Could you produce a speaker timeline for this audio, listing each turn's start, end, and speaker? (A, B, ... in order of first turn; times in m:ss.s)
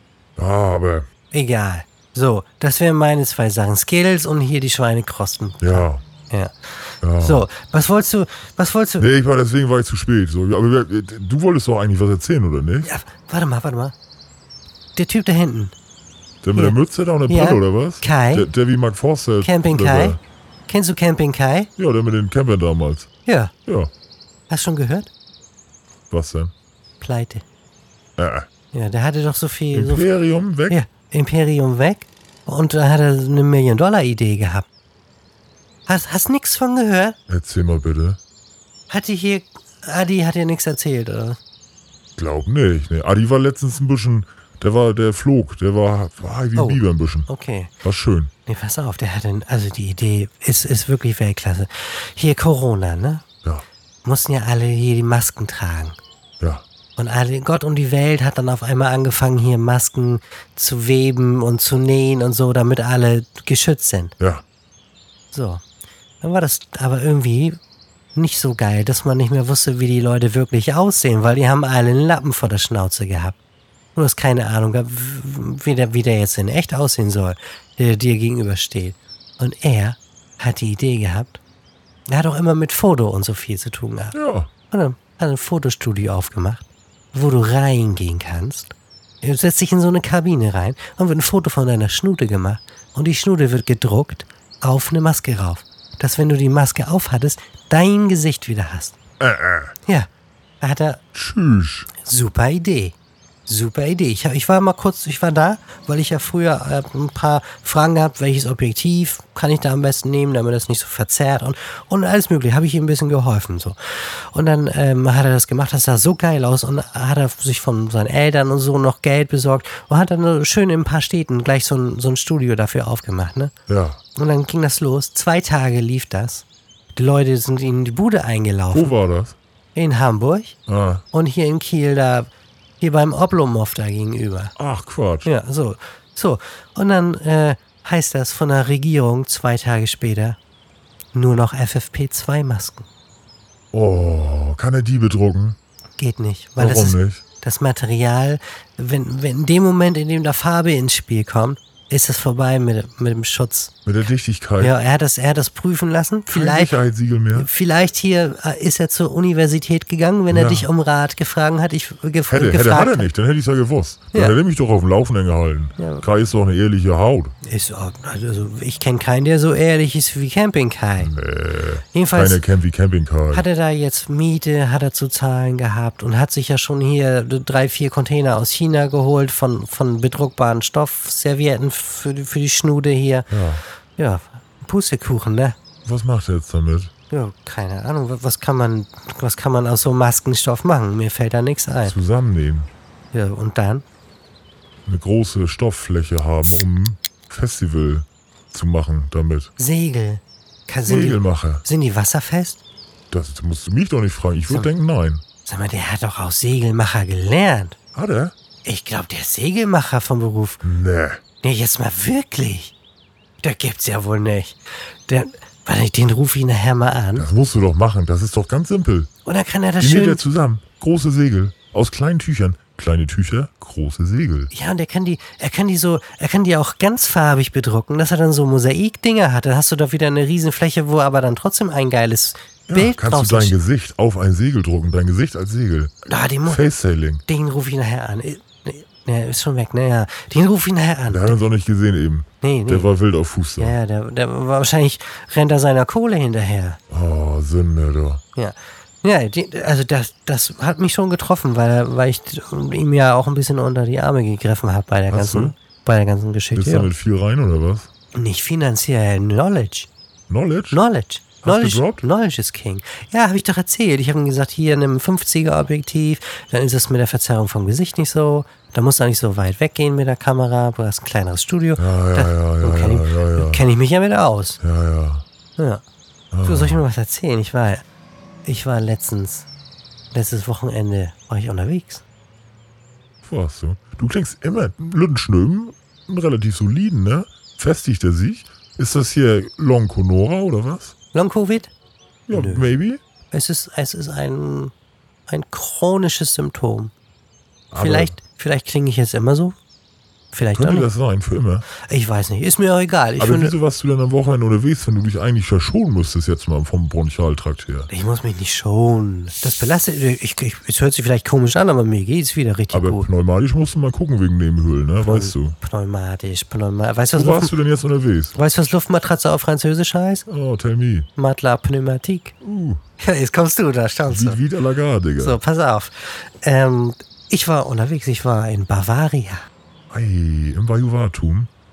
0:00.4-0:01.1 A
0:01.3-0:09.1 B
0:05.6-0:06.0 A
0:07.0-0:07.5 A
0:09.0-0:12.9 A
0:12.8-0:13.9 B
0:15.0-0:15.8 B
0:16.4-0:20.2 A
0:17.3-0:18.5 B
0:19.4-0:21.7 B
0:21.8-0:23.1 A
0:23.3-0:23.5 B
0:23.7-0:23.9 A
0:24.5-0:25.1 B
0:26.1-0:26.5 A
0:27.0-0:27.4 B
0:28.2-0:28.5 A
0:28.7-0:30.1 B
0:29.7-0:30.8 A
0:30.7-0:34.7 B
0:35.9-0:37.2 B
0:37.3-0:38.2 A
0:38.9-0:41.4 B
0:42.2-0:47.3 A
0:46.6-0:47.7 B
0:47.8-0:48.3 A
0:48.5-0:53.2 B
0:54.0-0:56.0 B
0:56.4-0:56.6 A
0:57.0-1:04.1 B
1:04.2-1:04.4 A
1:05.3-1:05.6 B
1:06.2-1:07.6 B
1:08.2-1:13.4 B
1:14.0-1:21.4 B
1:22.1-1:24.2 B
1:24.1-1:24.5 A
1:24.7-1:39.0 B
1:39.2-1:39.7 A
1:40.6-1:41.0 B
1:41.1-1:41.9 A
1:42.0-1:43.0 B
1:43.5-2:03.5 B
2:03.7-2:04.0 A
2:04.2-2:09.0 B
2:08.7-2:09.4 A
2:09.8-2:10.6 B
2:10.7-2:11.0 A
2:11.1-2:12.3 B
2:12.8-2:14.6 B
2:14.6-2:15.3 A
2:15.2-2:20.4 B
2:21.1-2:22.9 B
2:23.7-2:25.6 A
2:26.0-2:33.7 B
2:26.6-2:27.2 A
2:33.9-2:34.7 A
2:34.6-2:36.8 B
2:36.3-2:37.5 A
2:37.3-2:43.1 B
2:40.3-2:40.7 A
2:42.3-2:47.4 A
2:44.1-2:44.4 B
2:45.8-2:46.0 B
2:47.4-2:51.1 B
2:51.0-2:53.4 A
2:51.9-2:52.4 B
2:53.3-3:03.3 B
3:03.3-3:03.6 A
3:04.0-3:05.6 B
3:05.8-3:06.9 A
3:07.1-3:12.0 B
3:11.8-3:12.7 A
3:13.1-3:13.8 B
3:14.9-3:19.5 A
3:19.6-3:22.6 B
3:20.8-3:21.6 A
3:23.1-3:25.2 A
3:25.4-3:27.8 B
3:28.0-3:28.3 A
3:28.6-3:30.6 B
3:30.6-3:31.2 A
3:31.4-3:32.7 B
3:33.4-3:37.3 B
3:37.2-3:39.1 A
3:39.2-3:40.2 B
3:39.8-3:44.5 A
3:44.5-3:53.6 B
3:52.7-3:55.9 A
3:56.1-3:56.6 B
3:56.5-3:57.2 A
3:57.3-4:01.4 B
4:01.1-4:03.8 A
4:02.4-4:02.9 B
4:03.6-4:06.8 B
4:06.9-4:08.2 A
4:08.4-4:16.9 B
4:15.1-4:15.5 A
4:16.6-4:17.9 A
4:18.1-4:19.9 B
4:20.3-4:20.8 A
4:20.7-4:34.6 B
4:21.4-4:22.0 A
4:31.8-4:33.6 A
4:34.6-4:35.2 A
4:35.6-4:35.8 B
4:36.3-4:36.8 A
4:36.4-4:37.8 B
4:38.5-4:39.5 B
4:40.1-4:42.0 B
4:43.2-4:50.9 A
4:51.1-4:51.7 B
4:52.3-4:53.0 A
4:52.3-4:52.8 B
4:53.3-4:54.7 B
4:55.3-4:56.9 B
4:57.7-4:58.2 A
4:57.7-4:59.6 B
5:00.3-5:00.9 B
5:00.6-5:01.6 A
5:01.8-5:03.6 B
5:03.2-5:07.9 A
5:07.9-5:13.1 B
5:12.7-5:15.6 A
5:15.0-5:17.6 B
5:17.1-5:18.4 A
5:18.4-5:20.3 B
5:20.3-5:21.1 A
5:21.2-5:22.4 B
5:22.4-5:22.8 A
5:23.0-5:24.4 B
5:24.1-5:25.4 A
5:25.2-5:29.5 B
5:29.9-5:31.5 A